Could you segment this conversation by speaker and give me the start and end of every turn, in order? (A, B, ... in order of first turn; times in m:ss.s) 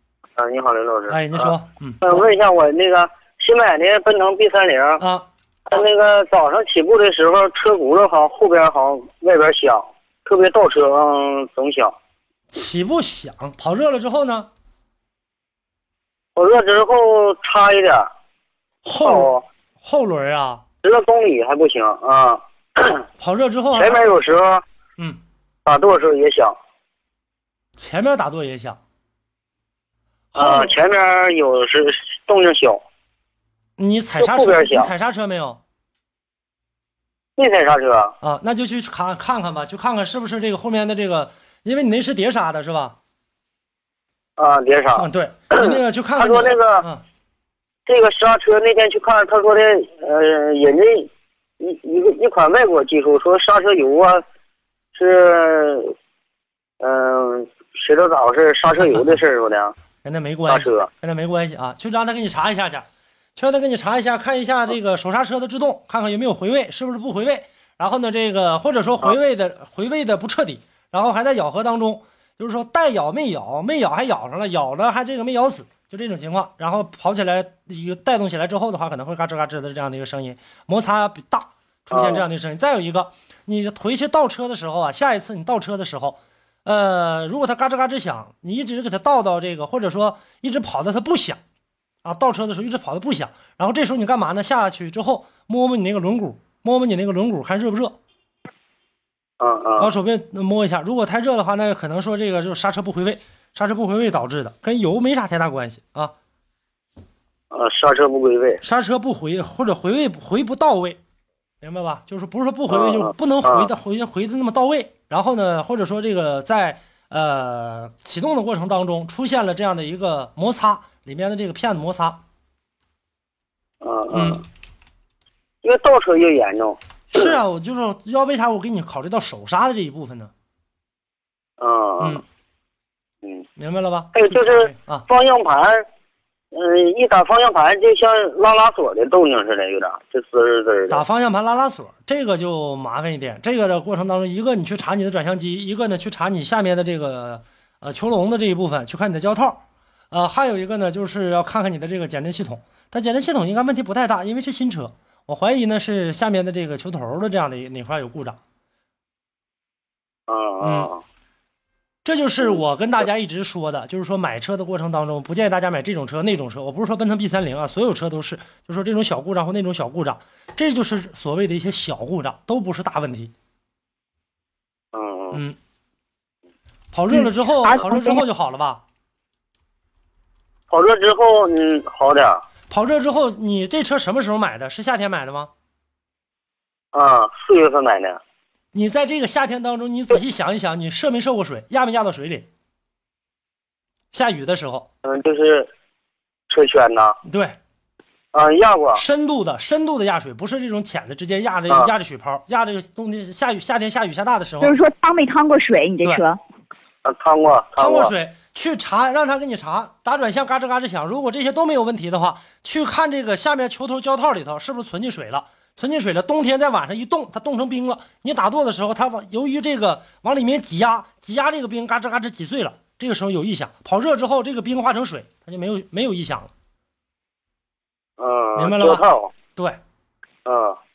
0:00.4-0:05.0 A
0:01.1-0:02.0 B
0:05.0-0:05.2 B
0:05.7-0:12.0 A
0:12.5-0:14.5 B
0:16.4-0:18.1 A
0:18.8-0:20.6 B
0:19.0-0:19.4 A
0:20.8-0:23.0 A
0:23.2-0:24.0 B
0:23.8-0:24.6 A
0:25.6-0:26.6 A
0:27.8-0:28.8 B
0:30.3-0:30.7 B
0:30.4-0:32.8 A
0:33.8-0:35.6 B
0:34.2-0:34.9 A
0:37.4-0:38.2 A
0:38.2-0:43.0 B
0:44.4-0:46.8 A
0:44.9-0:47.0 B
0:47.9-0:51.1 A
0:51.6-0:54.2 A
0:55.0-0:55.9 A
0:56.8-0:59.7 A
1:00.0-1:31.4 B
1:00.5-1:00.9 A
1:21.9-1:22.2 A
1:32.0-1:38.0 B
1:39.4-1:39.9 A
1:39.8-1:46.1 B
1:47.5-1:48.6 A
1:48.6-1:51.0 B
1:51.6-2:02.2 B
1:52.7-1:53.7 A
2:03.8-2:04.4 A
2:04.1-2:04.4 B
2:05.6-2:07.4 A
2:07.1-2:10.3 B
2:11.6-2:12.2 A
2:13.6-2:15.1 B
2:14.1-2:15.8 A
2:16.5-2:21.0 A
2:20.9-2:38.4 B
2:40.3-2:41.0 A
2:40.6-2:40.9 B
2:42.0-2:53.3 B
2:54.9-2:55.4 A
2:56.9-2:58.8 B
2:57.6-2:58.2 C
3:00.7-3:02.4 A
3:02.7-3:05.5 B
3:06.9-3:08.2 A
3:08.7-3:12.5 B
3:14.1-3:14.9 B
3:15.0-3:15.7 A
3:16.5-3:17.2 A
3:17.2-3:17.6 B
3:18.3-3:19.0 A
3:18.9-3:24.8 B
3:24.6-3:26.4 C
3:27.0-3:28.1 A
3:27.8-3:46.5 B
3:48.2-3:49.3 A
3:48.6-3:49.8 B
3:50.4-3:50.8 A